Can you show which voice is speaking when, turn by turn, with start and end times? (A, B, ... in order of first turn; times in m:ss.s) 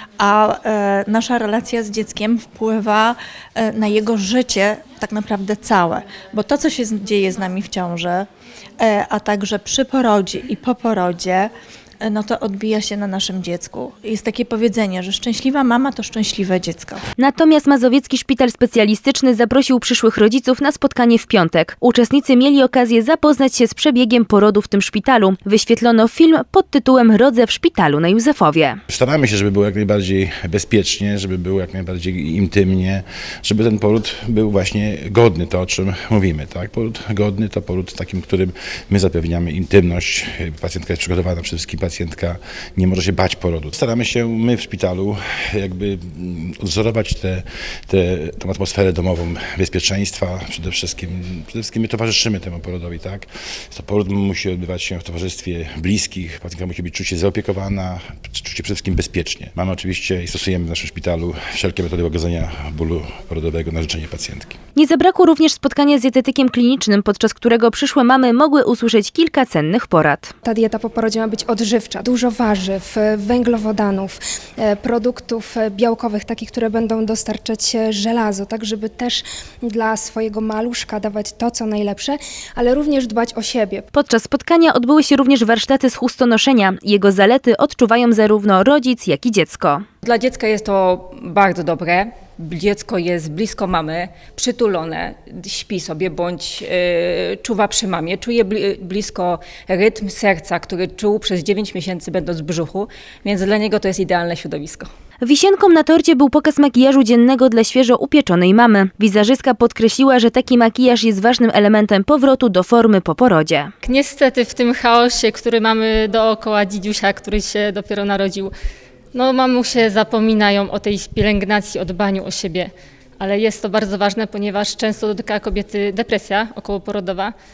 0:00.2-0:08.3 A
0:08.8-0:17.0 A
0:17.2-0:28.8 B
0:28.9-1:04.6 C
1:04.8-1:10.3 B
1:10.4-1:23.8 D
1:23.9-1:29.8 B
1:30.0-1:44.9 E
1:45.2-1:53.7 B
1:53.8-1:58.5 F
1:59.1-2:07.3 F